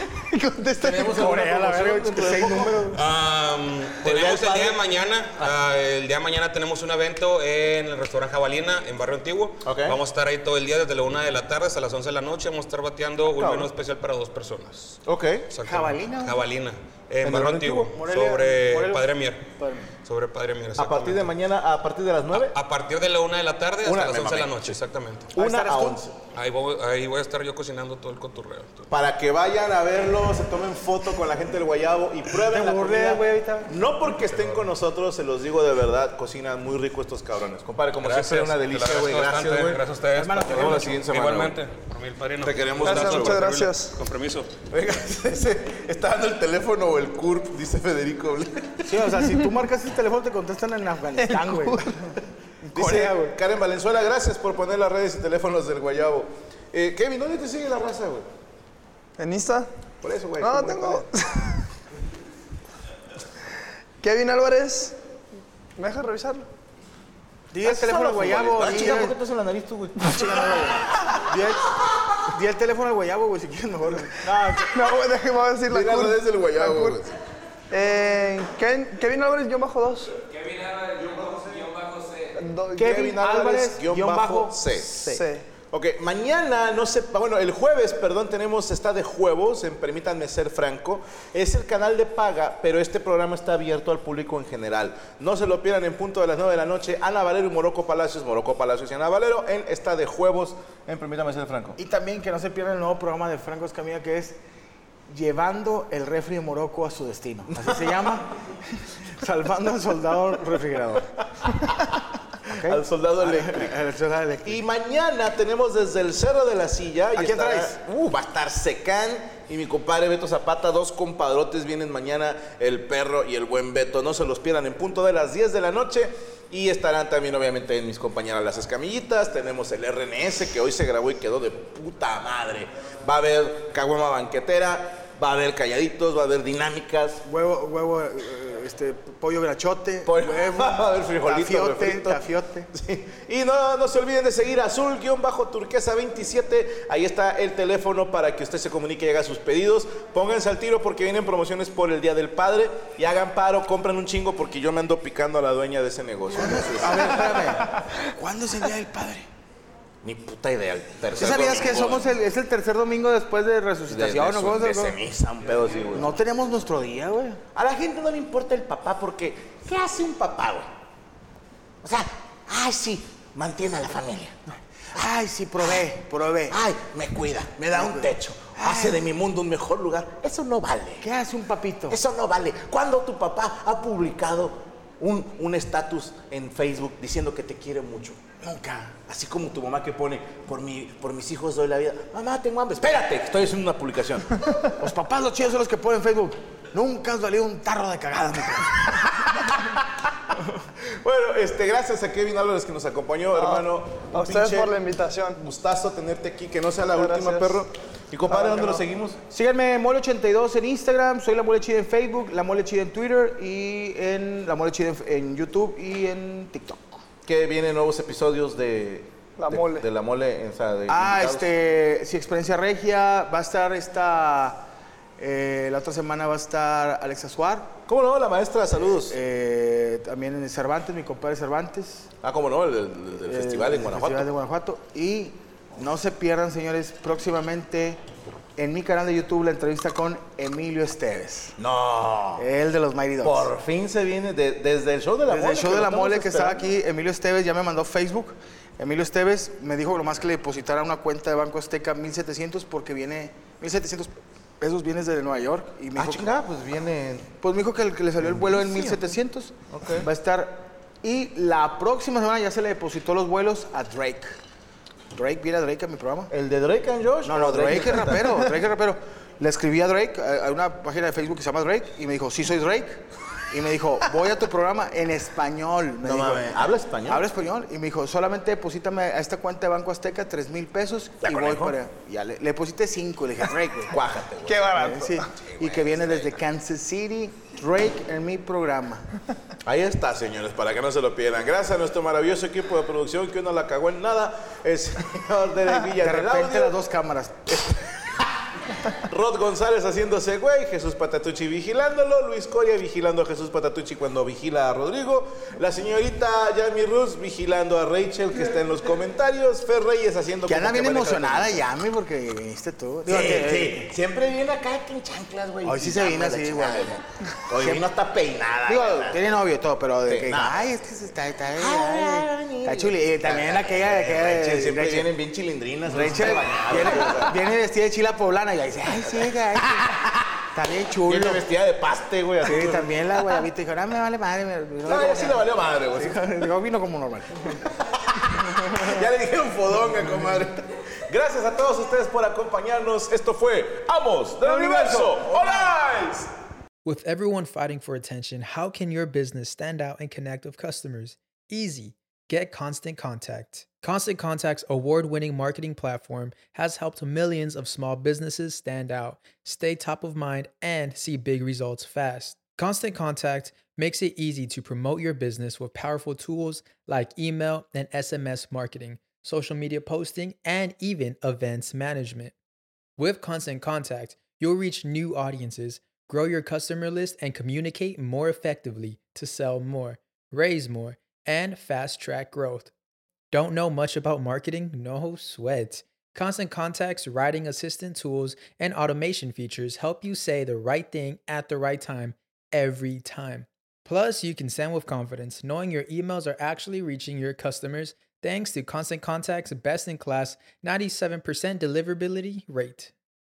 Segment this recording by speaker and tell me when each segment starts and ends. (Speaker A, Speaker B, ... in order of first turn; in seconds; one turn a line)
Speaker A: 0.1-1.2
Speaker B: 0.8-3.0
Speaker C: 1.0-3.0
Speaker D: 2.9-15.0
Speaker B: 4.0-4.8
Speaker B: 9.6-10.0
Speaker B: 13.3-13.7
Speaker B: 15.1-15.5
Speaker D: 15.5-19.5
Speaker C: 15.6-16.5
Speaker B: 17.2-17.9
Speaker C: 17.9-19.9
Speaker D: 20.0-21.3
Speaker B: 20.8-22.6
Speaker D: 22.3-25.3
Speaker B: 23.8-24.8
Speaker B: 25.3-26.1
Speaker C: 25.4-26.1
Speaker D: 26.3-28.9
Speaker B: 28.9-39.8
Speaker C: 32.4-33.7
Speaker D: 34.3-34.7
Speaker D: 38.0-44.6
Speaker C: 40.1-41.1
Speaker B: 40.5-41.6
Speaker B: 42.4-43.5
Speaker A: 42.8-43.9
Speaker B: 44.7-49.0
Speaker C: 48.8-52.1
Speaker A: 51.2-52.1
Speaker C: 52.7-53.4
Speaker B: 52.7-58.3
Speaker A: 59.2-59.7
Speaker B: 60.0-61.1
Speaker A: 60.4-61.6
Speaker A: 64.0-65.0
Speaker A: 65.8-66.5
Speaker C: 67.5-69.2
Speaker B: 67.6-71.1
Speaker C: 70.1-74.7
Speaker A: 74.7-77.0
Speaker B: 75.7-77.1
Speaker A: 77.7-80.2
Speaker A: 82.4-83.0
Speaker B: 82.7-101.8
Speaker C: 82.8-84.6
Speaker A: 84.9-85.4
Speaker C: 101.8-104.3
Speaker C: 105.1-108.3
Speaker C: 109.0-111.1
Speaker C: 112.4-114.6
Speaker B: 112.5-113.8
Speaker B: 114.4-137.2
Speaker C: 117.1-117.8
Speaker C: 137.2-142.7
Speaker B: 140.0-142.2
Speaker B: 142.7-157.5
Speaker C: 156.4-159.3
Speaker B: 160.0-162.1
Speaker C: 161.1-165.0
Speaker B: 163.9-166.2
Speaker C: 165.9-167.4
Speaker B: 167.5-170.7
Speaker B: 171.8-174.4
Speaker C: 174.9-176.6
Speaker B: 176.5-181.1
Speaker C: 177.7-179.0
Speaker C: 181.0-182.0
Speaker B: 181.9-188.2
Speaker C: 188.4-189.0
Speaker B: 189.1-194.5
Speaker C: 194.8-199.0
Speaker B: 200.9-204.8
Speaker A: 203.4-205.4
Speaker B: 205.4-209.2
Speaker A: 206.9-207.6
Speaker A: 208.3-208.8
Speaker C: 209.3-217.0
Speaker B: 217.2-221.5
Speaker A: 219.4-219.8
Speaker C: 220.9-224.6
Speaker C: 225.2-227.7
Speaker B: 227.9-229.2
Speaker C: 229.1-232.1
Speaker B: 232.2-234.3
Speaker C: 233.3-238.0
Speaker C: 238.6-241.6
Speaker B: 241.6-242.4
Speaker C: 242.3-243.5
Speaker B: 243.2-246.6
Speaker C: 245.3-256.4
Speaker B: 255.9-257.4
Speaker C: 257.4-264.4
Speaker B: 258.2-259.0
Speaker B: 259.7-260.1
Speaker C: 265.1-266.3
Speaker B: 266.3-268.5
Speaker C: 267.2-284.0
Speaker B: 276.0-277.3
Speaker B: 281.2-281.8
Speaker B: 283.9-284.9
Speaker A: 284.5-285.3
Speaker C: 284.7-289.1
Speaker B: 285.5-286.4
Speaker B: 289.6-296.7
Speaker C: 295.9-298.0
Speaker B: 298.9-311.6
Speaker C: 310.5-313.9
Speaker B: 313.1-319.4
Speaker C: 315.6-317.0
Speaker C: 317.5-317.9
Speaker C: 318.6-325.1
Speaker B: 320.0-320.7
Speaker B: 321.5-327.4
Speaker C: 325.9-329.9
Speaker B: 329.6-330.3
Speaker C: 330.5-331.4
Speaker B: 331.1-333.4
Speaker C: 332.4-337.6
Speaker B: 334.8-336.3
Speaker B: 337.8-346.3
Speaker C: 338.5-338.9
Speaker C: 344.4-345.7
Speaker E: 346.8-372.3
Speaker E: 373.0-382.7
Speaker E: 383.3-402.9